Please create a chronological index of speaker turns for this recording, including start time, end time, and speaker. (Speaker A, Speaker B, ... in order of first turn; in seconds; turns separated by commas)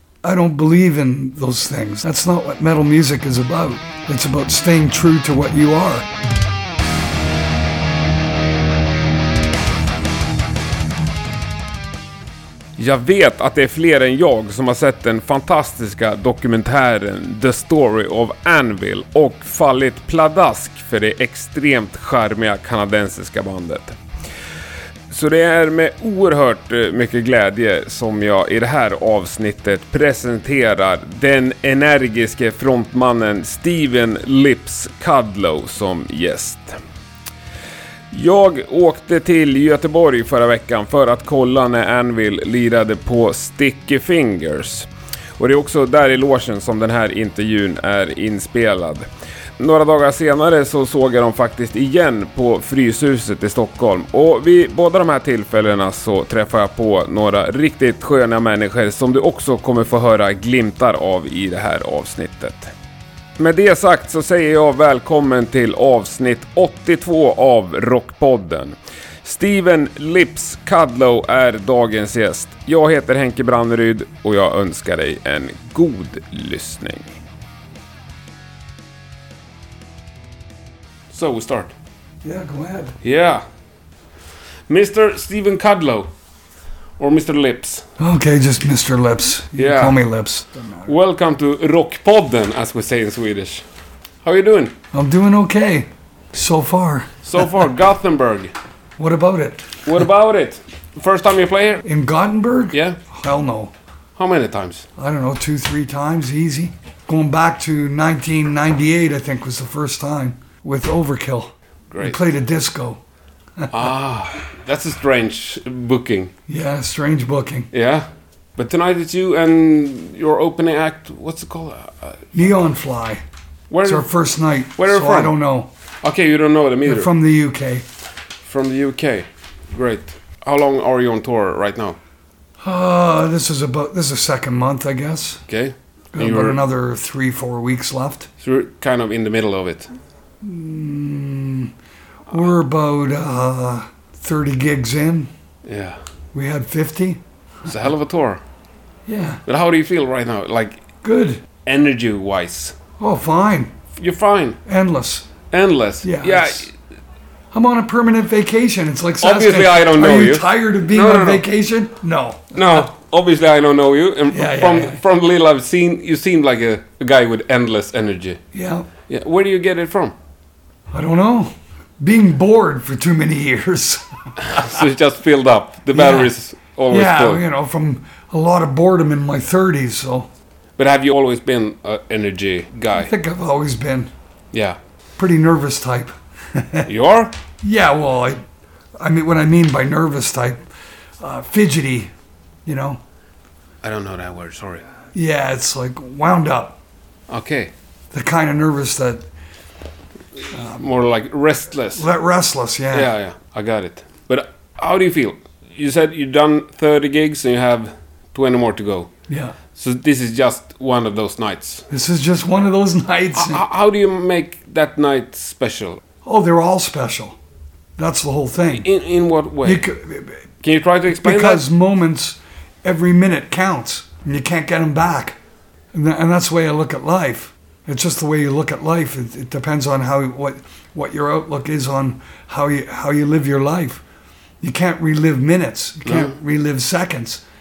Speaker A: 0.2-6.1, Speaker B: 12.8-24.0, Speaker B: 25.1-36.8, Speaker B: 38.1-49.1, Speaker B: 49.6-62.7, Speaker B: 63.4-77.1, Speaker B: 81.1-81.7, Speaker A: 82.2-83.0, Speaker B: 83.0-83.4, Speaker B: 84.7-86.1, Speaker B: 87.0-87.8, Speaker A: 88.0-90.9, Speaker B: 89.5-90.0, Speaker B: 90.8-93.6, Speaker B: 94.2-94.7, Speaker A: 94.9-97.2, Speaker B: 97.2-98.5, Speaker A: 99.0-99.8, Speaker B: 99.8-101.8, Speaker A: 101.8-103.7, Speaker B: 102.7-103.0, Speaker B: 104.2-104.9, Speaker A: 105.0-113.0, Speaker B: 111.9-112.2, Speaker A: 113.6-113.9, Speaker B: 113.7-116.3, Speaker A: 116.5-117.7, Speaker B: 117.7-122.3, Speaker A: 122.3-123.2, Speaker B: 123.7-124.1, Speaker A: 123.8-125.7, Speaker B: 124.8-125.4, Speaker B: 126.0-127.1, Speaker A: 126.8-127.8, Speaker B: 128.4-132.0, Speaker A: 132.6-135.4, Speaker B: 135.5-136.6, Speaker A: 136.1-138.3, Speaker B: 138.4-139.9, Speaker A: 140.4-141.7, Speaker A: 142.3-145.3, Speaker B: 145.6-146.0, Speaker A: 146.3-147.2, Speaker B: 147.7-148.4, Speaker A: 149.1-149.4, Speaker B: 149.4-150.8, Speaker A: 151.0-151.4, Speaker B: 151.6-152.8, Speaker A: 153.0-153.7, Speaker B: 153.9-154.6, Speaker A: 154.6-155.3, Speaker B: 155.5-156.7, Speaker A: 156.0-156.7, Speaker A: 157.5-162.9, Speaker B: 159.2-161.5, Speaker B: 162.5-168.4, Speaker A: 164.3-165.0, Speaker A: 168.5-168.9, Speaker B: 169.1-170.1, Speaker A: 170.9-174.8, Speaker B: 174.4-177.4, Speaker A: 175.9-176.3, Speaker A: 176.9-180.3, Speaker B: 180.8-183.1, Speaker A: 182.9-184.1, Speaker B: 184.5-184.8, Speaker A: 185.2-186.9, Speaker B: 186.9-187.3, Speaker A: 187.6-188.4, Speaker A: 189.0-190.6, Speaker A: 191.2-192.1, Speaker A: 192.7-193.0, Speaker B: 193.8-194.8, Speaker A: 195.1-196.8, Speaker B: 197.3-197.7, Speaker A: 198.1-199.3, Speaker A: 200.5-200.9, Speaker B: 200.8-202.0, Speaker A: 201.9-203.1, Speaker B: 202.9-209.1, Speaker A: 209.3-209.6, Speaker B: 209.7-211.8, Speaker A: 211.9-213.6, Speaker B: 213.3-216.0, Speaker A: 216.2-217.4, Speaker A: 218.0-218.9, Speaker B: 218.8-219.8, Speaker A: 219.6-220.4, Speaker B: 220.6-221.6, Speaker A: 221.1-225.4, Speaker A: 225.9-234.0, Speaker A: 234.6-237.4, Speaker B: 236.0-236.3